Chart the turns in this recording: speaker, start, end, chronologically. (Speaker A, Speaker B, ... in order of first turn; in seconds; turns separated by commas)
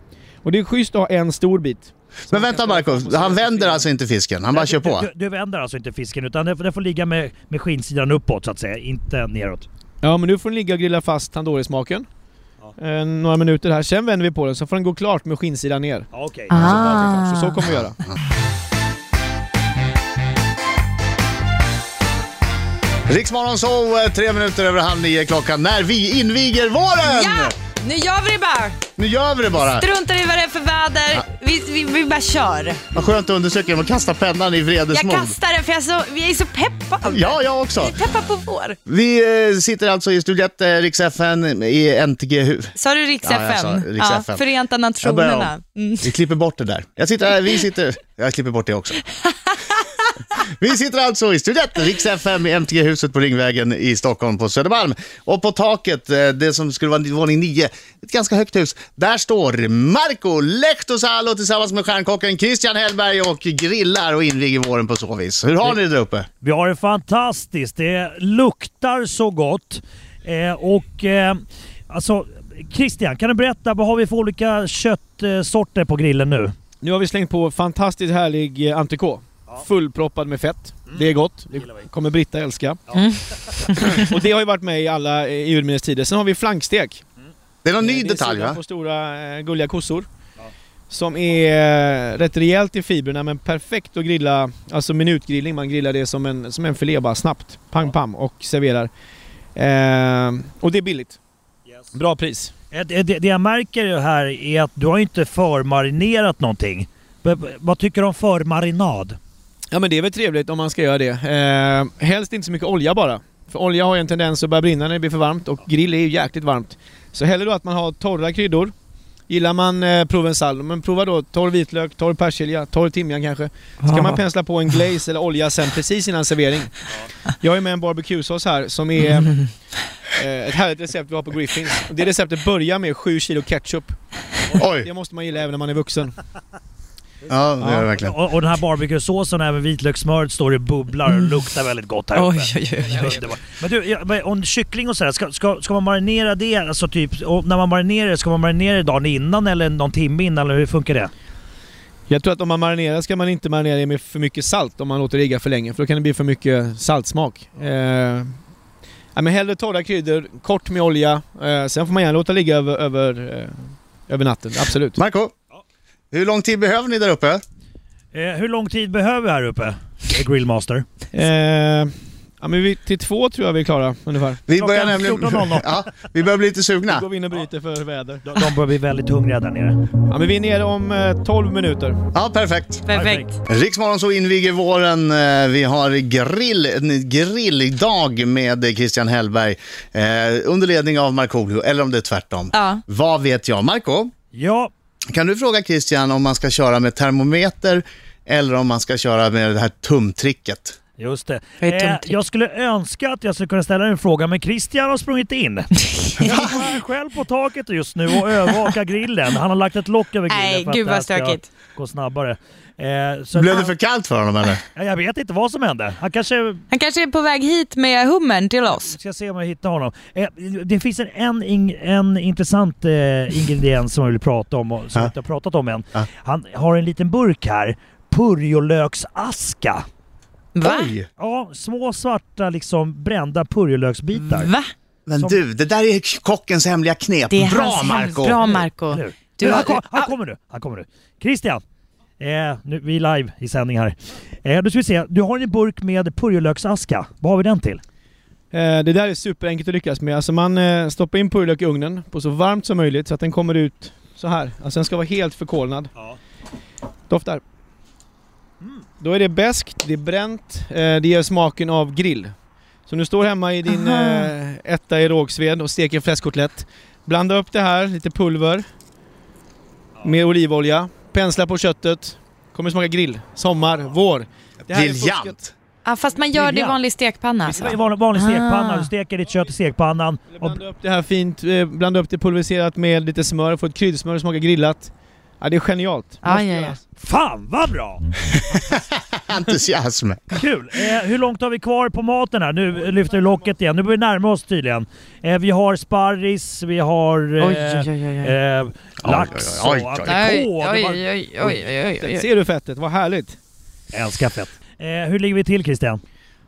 Speaker A: 0.4-3.9, Speaker B: 2.3-5.1, Speaker C: 4.5-9.7, Speaker A: 10.0-12.1, Speaker A: 12.8-17.9, Speaker C: 16.1-16.7, Speaker D: 16.5-17.7, Speaker B: 23.1-27.5, Speaker D: 27.0-28.8, Speaker B: 29.0-29.8, Speaker D: 29.6-32.8, Speaker B: 32.9-35.3, Speaker D: 34.9-38.8, Speaker B: 37.1-38.0, Speaker B: 38.9-44.4, Speaker D: 42.8-46.1, Speaker B: 45.0-49.0, Speaker B: 50.4-66.3, Speaker C: 66.4-76.5, Speaker A: 76.8-82.8, Speaker C: 80.9-81.9, Speaker D: 83.0-84.0, Speaker A: 83.9-87.0, Speaker B: 87.6-88.6, Speaker A: 87.8-90.1, Speaker A: 90.9-98.9, Speaker A: 99.5-101.2, Speaker A: 101.9-102.5, Speaker C: 102.7-109.2, Speaker A: 109.7-118.7, Speaker A: 119.3-126.7, Speaker D: 123.8-124.2, Speaker A: 127.4-129.4, Speaker A: 130.2-134.0, Speaker B: 134.6-134.9, Speaker A: 134.6-136.1, Speaker B: 137.3-138.1, Speaker A: 137.6-137.9, Speaker C: 137.9-151.1, Speaker D: 142.1-143.2, Speaker A: 152.1-158.3, Speaker A: 159.1-165.0, Speaker B: 164.9-165.3, Speaker B: 166.1-167.4, Speaker C: 168.1-170.8, Speaker A: 171.1-174.4, Speaker B: 174.5-177.1, Speaker C: 174.6-175.8, Speaker A: 176.9-178.3, Speaker C: 178.3-179.8, Speaker A: 180.1-182.0, Speaker B: 182.1-182.8, Speaker D: 182.8-183.3, Speaker C: 182.9-183.3, Speaker B: 183.5-194.1, Speaker D: 192.5-192.8, Speaker C: 194.3-194.7, Speaker B: 195.1-200.8, Speaker C: 201.0-213.7, Speaker D: 201.6-202.2, Speaker D: 206.0-206.3, Speaker B: 206.3-206.7, Speaker D: 210.3-211.5, Speaker B: 213.3-214.6, Speaker C: 214.8-216.6, Speaker D: 216.7-219.0, Speaker C: 218.8-229.8, Speaker D: 230.5-230.9, Speaker B: 230.6-231.1, Speaker C: 231.2-234.5, Speaker D: 234.2-234.7, Speaker B: 235.1-238.5, Speaker D: 237.3-240.1, Speaker C: 238.4-241.6, Speaker C: 242.2-247.8, Speaker A: 248.5-255.9, Speaker A: 257.1-257.4, Speaker A: 259.0-262.3, Speaker A: 262.9-268.6, Speaker D: 263.7-264.3, Speaker A: 270.0-275.4, Speaker B: 274.7-275.5, Speaker D: 275.8-278.9, Speaker C: 276.3-276.8, Speaker C: 277.5-280.6, Speaker A: 280.3-286.8, Speaker D: 286.2-286.8, Speaker C: 287.0-288.1, Speaker B: 288.3-290.4, Speaker C: 290.3-301.0, Speaker D: 297.4-298.3, Speaker B: 299.0-300.4, Speaker D: 300.0-302.3, Speaker A: 301.4-303.4, Speaker C: 303.9-306.0